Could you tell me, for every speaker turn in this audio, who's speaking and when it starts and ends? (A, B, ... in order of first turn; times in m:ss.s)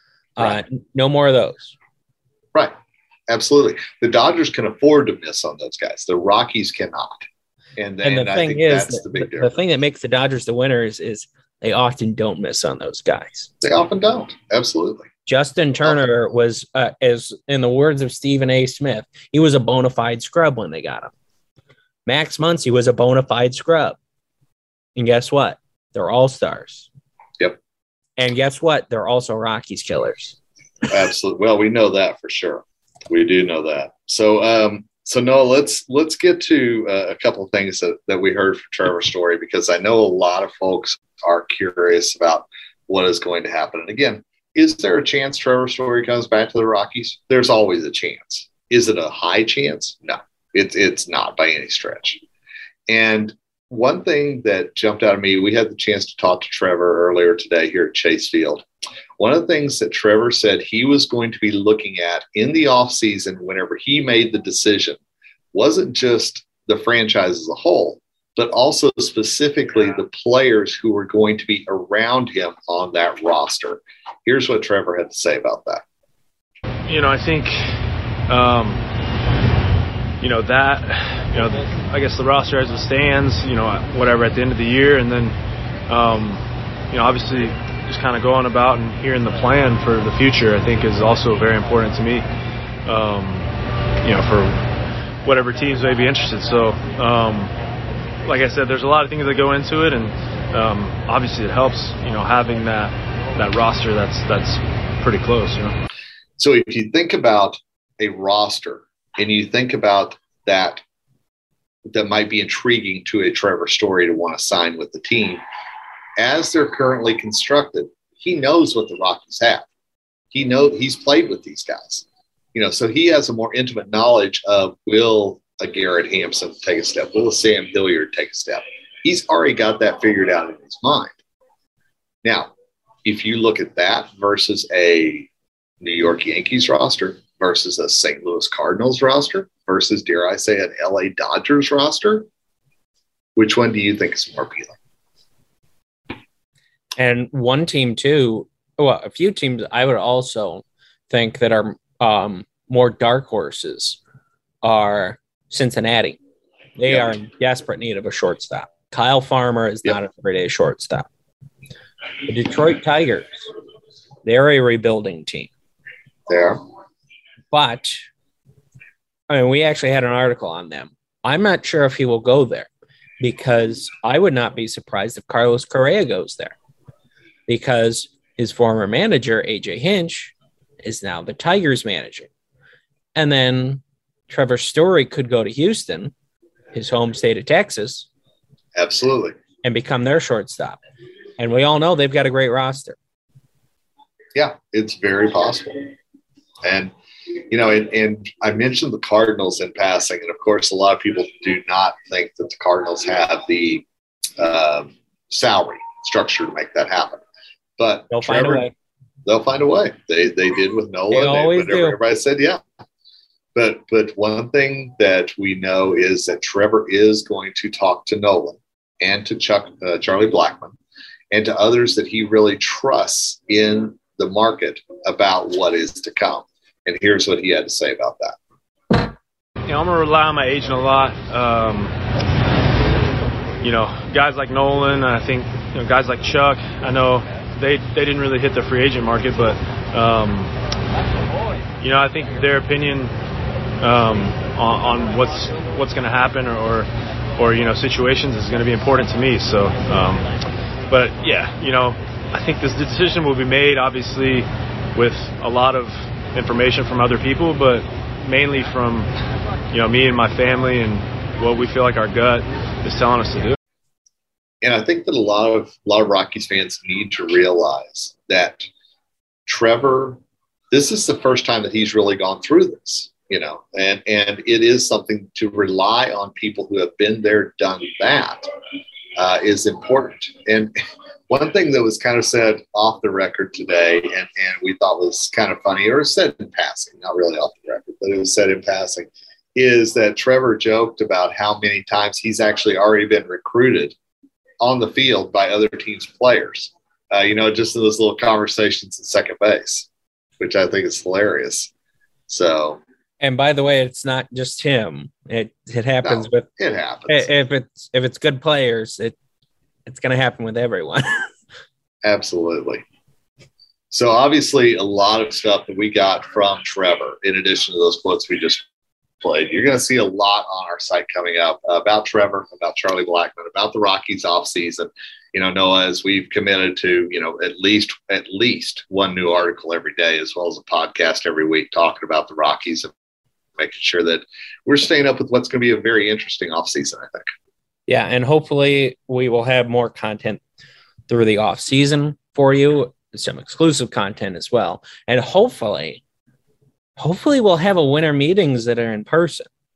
0:00.4-0:01.8 A
0:03.3-0:07.3 B
0:07.8-0:09.5 B
0:08.0-0:13.5 A
0:13.6-0:15.1 B
0:15.3-0:21.1 A
0:22.1-0:24.0 A
0:25.0-0:26.9 A
0:28.2-0:30.4 A
0:30.9-0:52.2 B
0:52.9-0:58.6 B
0:59.2-1:05.0 B
1:05.5-1:15.8 B
1:16.9-1:17.6 C
1:18.3-1:18.8 C
1:20.2-1:25.4 C
1:25.9-1:32.3 C
1:32.8-1:33.5 C
1:34.0-1:34.7 C
1:35.2-1:37.5 C
1:38.2-1:45.8 C
1:46.4-1:50.8 B
1:51.9-1:55.4 B
1:56.2-1:59.7 B
2:00.3-2:11.2 B
2:12.2-2:12.5 B
2:13.0-2:15.3 B
2:15.8-2:22.3 B
2:23.4-2:24.8 B
2:27.0-2:34.0 A
2:34.6-2:36.2 A
2:36.8-2:41.1 A
2:36.9-2:37.2 B
2:42.3-2:43.3 A
2:44.2-2:45.5 A
2:46.3-2:46.6 B
2:47.5-2:48.0 A
2:49.3-2:52.7 A
2:53.2-2:56.5 A
2:57.5-3:02.3 A
3:03.2-3:06.1 A
3:06.7-3:08.1 A
3:08.8-3:09.4 B
3:09.6-3:10.8 A
3:11.4-3:13.0 A
3:14.4-3:15.9 B
3:16.6-3:16.9 B
3:17.5-3:23.8 B
3:24.4-3:27.2 B
3:27.8-3:28.7 B
3:28.1-3:28.7 A
3:29.3-3:32.6 B
3:31.1-3:32.0 A
3:33.6-3:40.8 B
3:41.3-3:48.4 B
3:49.7-3:51.9 C
3:53.6-4:00.5 C
4:01.8-4:03.1 C
4:03.8-4:10.3 C
4:10.9-4:19.1 C
4:19.7-4:23.6 C
4:24.6-4:28.7 B
4:29.5-4:30.2 B
4:30.7-4:38.5 B
4:39.2-4:40.7 B
4:41.3-4:54.0 B
4:54.6-4:59.9 B
5:00.4-5:01.7 B
5:02.3-5:02.8 B
5:03.2-5:06.5 A
5:06.0-5:07.3 B
5:07.1-5:09.2 A
5:09.9-5:11.3 A
5:12.0-5:12.8 B
5:13.9-5:18.6 B
5:19.2-5:32.9 B
5:33.6-5:37.3 B
5:37.9-5:40.4 A
5:41.1-5:46.0 A
5:47.0-5:49.5 A